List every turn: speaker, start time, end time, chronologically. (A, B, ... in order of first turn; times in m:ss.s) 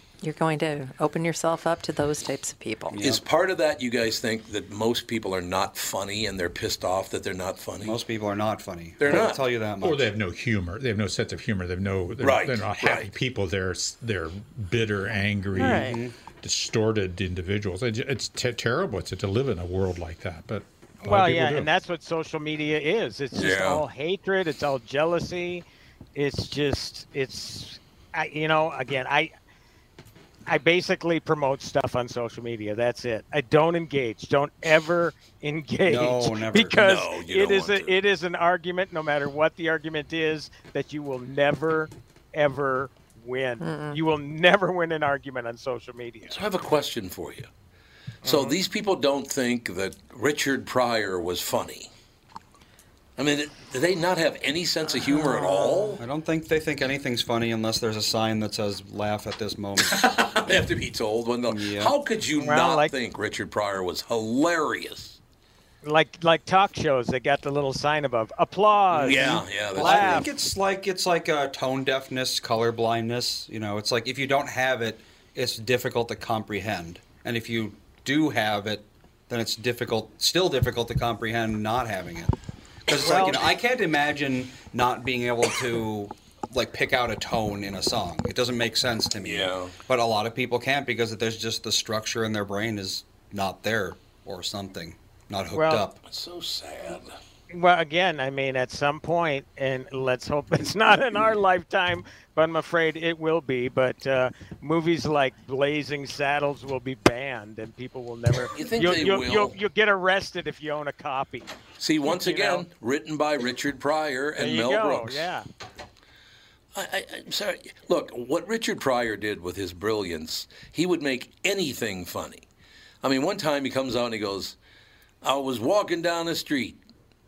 0:00.2-0:03.0 A
0:02.9-0:03.2 B
0:03.0-0:08.0 C
0:07.8-0:10.1 B
0:09.0-0:09.4 C
0:09.8-0:21.7 D
0:12.2-0:13.1 C
0:15.6-0:16.1 B
0:15.6-0:16.0 A
0:21.0-0:25.6 E
0:23.3-0:23.8 C
0:26.2-0:29.3 E
0:30.5-0:46.4 E
0:35.8-0:36.7 B
0:36.7-0:38.0 C
0:43.6-0:44.0 A
0:46.3-0:47.5 C
0:48.2-0:51.9 C
0:48.2-0:48.6 E
0:53.2-0:56.0 C
0:56.0-1:00.6 B
0:59.8-1:05.2 C
1:01.5-1:01.9 B
1:02.4-1:02.9 E
1:05.8-1:10.3 E
1:08.9-1:10.3 C
1:09.1-1:22.3 B
1:22.9-1:36.0 B
1:23.0-1:23.4 E
1:29.2-1:29.7 C
1:35.5-1:35.8 E
1:36.0-1:37.1 C
1:37.5-1:51.5 E
1:48.5-1:49.6 C
1:51.8-1:55.3 C
1:52.0-1:52.6 E
1:54.4-1:55.4 E
1:56.7-2:02.5 C
2:03.0-2:04.6 C
2:05.2-2:06.8 C